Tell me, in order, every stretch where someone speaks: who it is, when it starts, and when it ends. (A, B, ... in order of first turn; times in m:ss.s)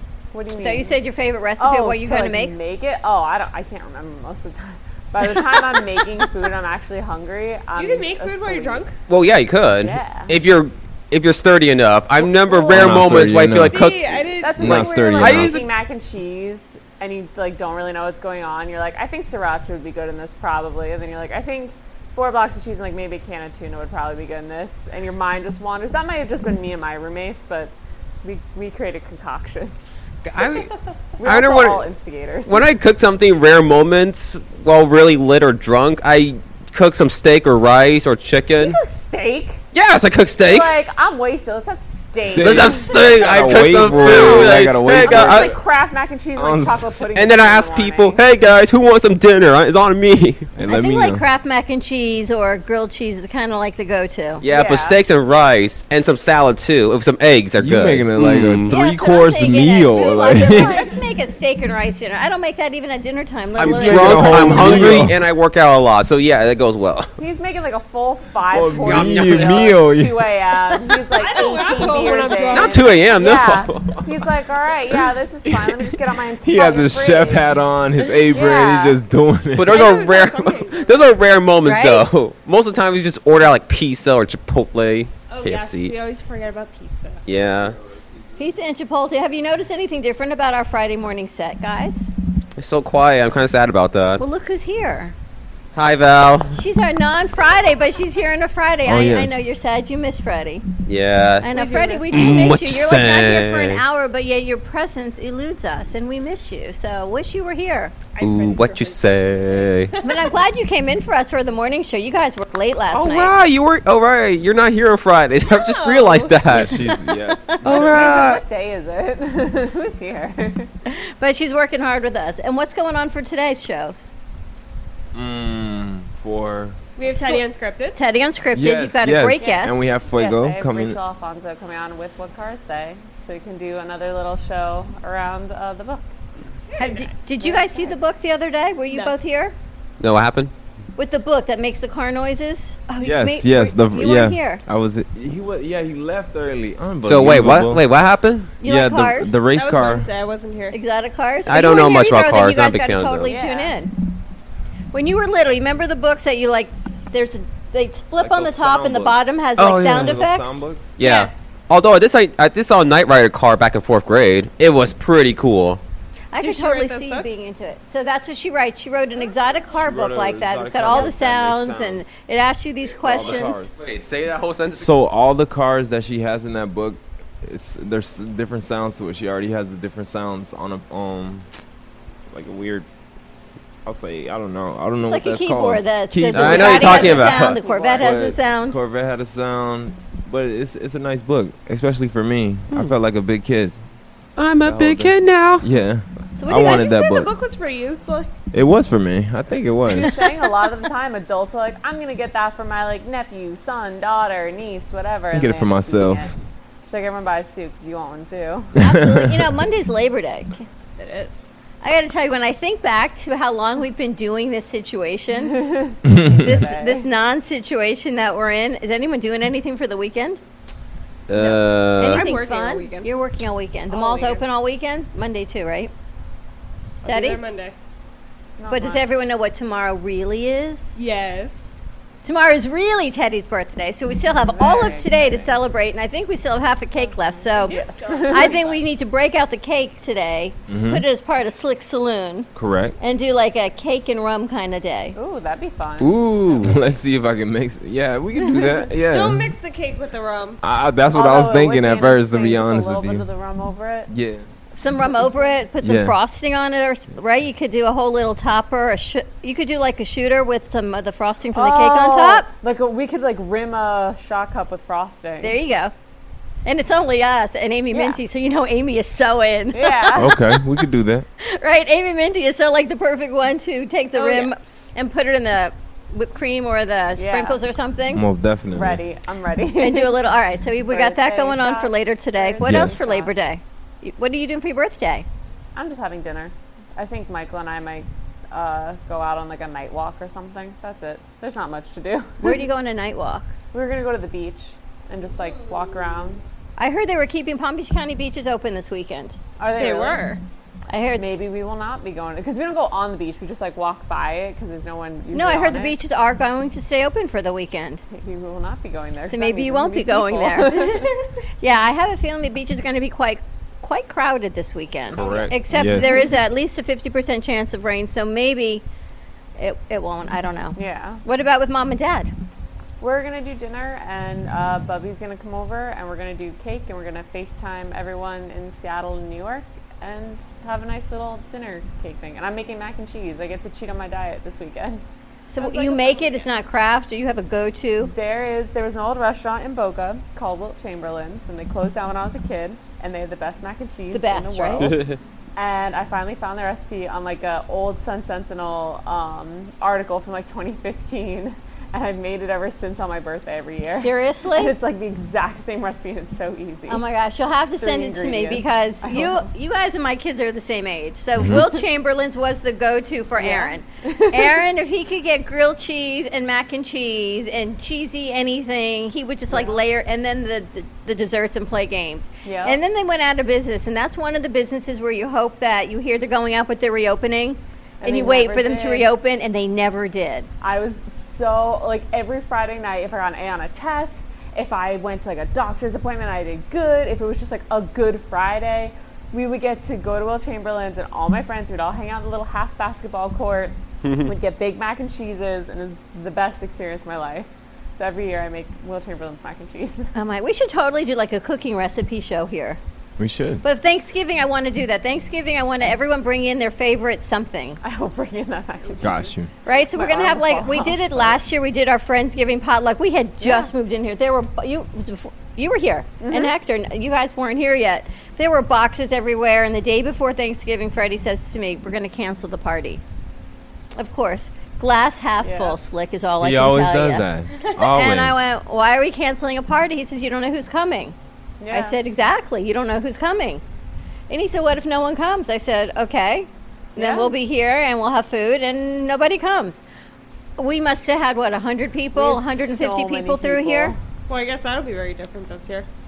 0:00.3-0:01.0 A
0:00.6-0:02.6 B
0:01.6-0:08.8 A
0:07.8-0:09.0 C
0:09.1-0:15.6 D
0:09.8-0:10.3 A
0:12.2-0:13.0 C
0:12.7-0:13.8 E
0:13.5-0:15.0 C
0:14.4-0:30.0 A
0:14.6-0:15.6 E
0:30.2-0:30.7 D
0:31.2-0:32.7 A
0:31.2-0:31.9 D
0:32.5-0:38.8 D
0:38.5-0:39.6 A
0:39.7-0:40.7 D
0:40.4-0:48.2 A
0:42.3-0:45.5 E
0:42.4-0:45.6 D
0:46.4-0:46.9 E
0:47.1-0:50.5 D
0:50.5-0:51.2 E
0:50.7-0:54.4 B
0:54.4-0:58.7 D
0:54.4-0:55.0 A
0:57.6-1:00.8 E
0:58.7-1:05.0 B
1:00.3-1:00.7 A
1:00.5-1:00.9 C
1:03.6-1:07.1 D
1:03.6-1:05.2 E
1:07.2-1:19.0 A
1:08.5-1:10.2 E
1:08.7-1:09.8 D
1:11.1-1:13.0 C
1:12.5-1:14.0 D
1:15.5-1:19.9 E
1:19.5-1:25.9 D
1:19.7-1:21.1 C
1:21.6-1:22.1 B
1:25.3-1:27.2 C
1:27.2-1:27.8 D
1:28.4-1:32.1 B
1:32.6-1:34.2 D
1:34.2-1:35.1 B
1:35.7-1:36.6 D
1:36.5-1:40.6 B
1:38.8-1:39.4 E
1:40.9-1:41.5 D
1:41.4-1:48.0 B
1:41.7-1:42.3 C
1:42.1-1:43.8 D
1:48.1-1:50.4 C
1:48.2-1:49.9 D
1:50.0-1:53.4 B
1:52.9-1:56.9 D
1:55.5-1:56.5 C
1:56.5-1:58.3 E
1:56.9-1:57.6 B
1:57.6-1:58.4 D
1:57.6-2:00.7 A
2:00.9-2:04.1 B
2:05.1-2:06.8 E
2:07.0-2:08.0 C
2:07.0-2:09.8 B
2:08.5-2:11.0 E
2:09.4-2:16.1 A
2:16.7-2:17.9 C
2:16.8-2:19.5 B
2:18.9-2:19.2 C
2:20.0-2:20.5 D
2:21.0-2:24.6 B
2:23.0-2:27.8 E
2:27.0-2:28.5 D
2:28.6-2:29.4 B
2:28.6-2:30.1 E
2:29.5-2:30.8 C
2:30.7-2:34.0 B
2:31.5-2:33.3 D
2:33.2-2:33.7 A
2:34.9-2:40.6 B
2:38.2-2:41.0 E
2:39.6-2:40.2 D
2:41.0-2:45.8 D
2:41.0-2:41.4 C
2:46.3-2:53.7 B
2:46.4-2:47.4 C
2:49.6-2:52.1 E
2:52.9-2:53.7 E
2:53.2-2:54.9 D
2:54.7-3:01.5 E
3:02.3-3:02.9 E
3:03.8-3:13.8 E
3:05.0-3:08.8 B
3:06.3-3:07.6 D
3:06.8-3:08.1 C
3:14.4-3:15.7 D
3:14.6-3:17.3 E
3:16.4-3:17.1 B
3:16.5-3:18.3 C
3:18.5-3:20.2 E
3:19.9-3:26.3 A
3:25.3-3:26.3 E
3:26.9-3:28.8 A
3:28.8-3:30.6 B
3:28.8-3:29.5 E
3:31.0-3:31.5 C
3:31.8-3:35.6 B
3:35.4-3:37.1 A
3:36.0-3:36.6 E
3:36.3-3:40.4 B
3:41.3-3:42.3 D
3:41.4-3:43.1 C
3:42.0-3:45.9 B
3:43.9-3:44.4 C
3:47.0-3:47.4 B
3:47.0-3:47.8 C
3:48.6-3:49.1 A
3:48.7-3:51.0 B
3:51.0-3:51.8 C
3:52.2-4:02.5 B
3:54.3-3:55.6 A
3:57.0-3:58.6 A
3:57.5-3:58.8 C
4:00.7-4:01.0 E
4:02.5-4:03.0 E
4:03.0-4:05.2 B
4:05.1-4:06.8 A
4:06.0-4:09.5 E
4:09.0-4:10.6 C
4:10.6-4:13.3 E
4:11.1-4:14.1 A
4:14.1-4:14.5 E
4:14.8-4:22.5 B
4:15.8-4:16.2 E
4:21.5-4:25.6 A
4:25.4-4:25.9 B
4:26.6-4:30.4 B
4:27.9-4:28.2 A
4:29.7-4:30.4 A
4:30.1-4:31.3 E
4:31.4-4:38.2 B
4:34.2-4:34.5 C
4:37.2-4:37.6 A
4:38.1-4:39.0 E
4:38.7-4:40.2 A
4:39.8-4:45.2 B
4:40.9-4:43.3 A
4:42.6-4:43.0 E
4:45.8-4:52.6 A
4:52.4-4:53.5 B
4:53.7-4:56.4 A
4:55.3-4:56.3 C
4:56.8-4:59.4 B
4:59.6-5:00.3 A
4:59.8-5:00.4 C
5:00.9-5:01.2 B
5:01.2-5:06.0 A
5:05.3-5:08.0 B
5:08.1-5:11.2 A
5:09.3-5:18.8 B
5:15.1-5:15.6 D
5:15.1-5:16.3 A
5:15.7-5:16.3 E
5:19.6-5:22.3 B
5:20.8-5:21.2 A
5:23.0-5:35.0 A
5:35.5-5:38.1 B
5:35.6-5:36.5 C
5:38.1-5:57.0 A
5:44.1-5:45.0 B
5:44.8-5:45.2 D
5:53.9-5:54.8 B
5:56.9-6:20.5 B
5:57.8-5:59.5 A
6:01.4-6:01.7 E
6:03.4-6:04.6 A
6:09.5-6:09.8 A
6:12.4-6:12.8 A
6:18.0-6:19.1 A
6:20.6-6:40.1 A
6:34.0-6:34.3 D
6:40.2-6:42.8 B
6:43.2-6:43.6 E
6:43.6-6:47.8 B
6:47.8-6:51.4 A
6:49.0-6:49.5 E
6:49.6-7:03.0 B
6:53.4-6:53.7 A
6:56.2-6:56.5 A
7:04.0-7:07.3 B
7:05.4-7:05.8 A
7:06.4-7:08.5 E
7:07.8-7:11.2 B
7:11.6-7:12.0 A
7:11.7-7:13.6 B
7:14.3-7:19.8 B
7:17.0-7:17.3 A
7:20.6-7:24.0 B
7:22.2-7:24.0 A
7:24.3-7:25.9 C